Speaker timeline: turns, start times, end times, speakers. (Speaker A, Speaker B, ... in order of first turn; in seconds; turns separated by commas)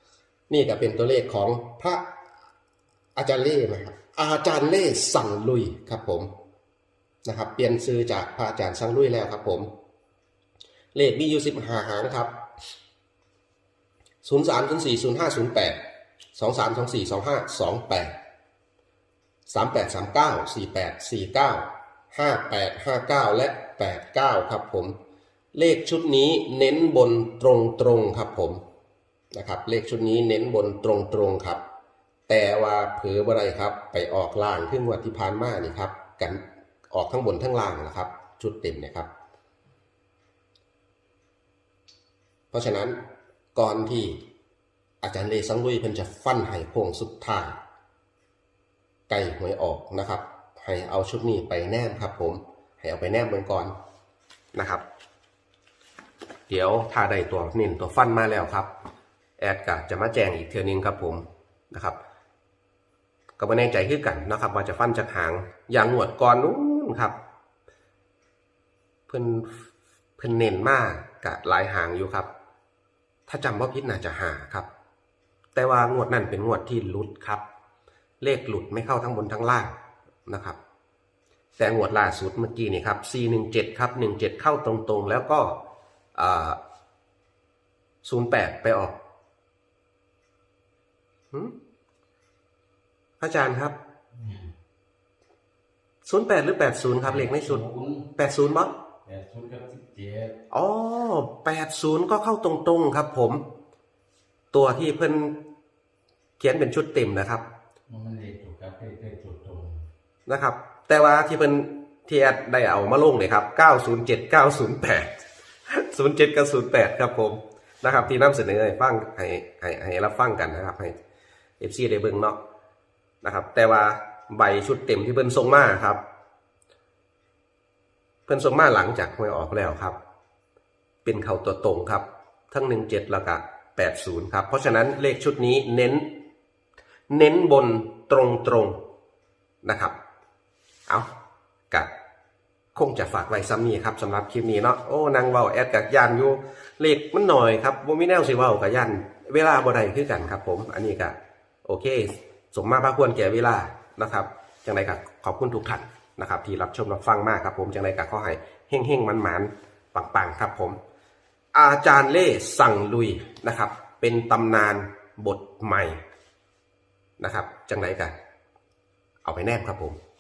Speaker A: 0.5-2.0, Speaker A: 3.1-6.3, Speaker A: 7.2-9.7, Speaker A: 10.9-12.3, Speaker A: 14.2-15.8, Speaker A: 16.4-18.1, Speaker A: 19.5-24.9, Speaker A: 25.5-28.6, Speaker A: 29.3-31.6, Speaker A: 32.3-39.1, Speaker A: 42.5-43.0, Speaker A: 43.5-44.2, Speaker A: 45.0-47.5, Speaker A: 49.1-53.8, Speaker A: 54.5-54.8, Speaker A: 56.5-58.7, Speaker A: 59.4-62.0, Speaker A: 63.4-67.2, Speaker A: 69.1-69.6, Speaker A: 70.2-72.3, Speaker A: 73.3-74.7, Speaker A: 75.5-77.4, Speaker A: 78.2-79.7, Speaker A: 80.2-80.6, Speaker A: 81.6-85.6, Speaker A: 86.1-86.6, Speaker A: 88.0-89.0, Speaker A: 93.2-93.7, Speaker B: 94.1-94.5, Speaker A: 96.0-97.6, Speaker B: 97.0-98.1, Speaker A: 98.2-98.7, Speaker B: 99.0-100.3, Speaker A: 100.5-103.4, Speaker A: 104.5-105.4, Speaker A: 106.4-107.5, Speaker B: 107.9-109.9, Speaker A: 110.3-115.1, Speaker A: 115.7-121.0, Speaker A: 121.6-122.4, Speaker A: 123.2-126.0, Speaker A: 128.3-130.0, Speaker A: 131.0-136.1, Speaker A: 137.1-138.8, Speaker A: 139.6-139.9, Speaker A: 142.8-160.8, Speaker A: 161.5-166.0, Speaker A: 167.2-168.1, Speaker A: 169.2-170.0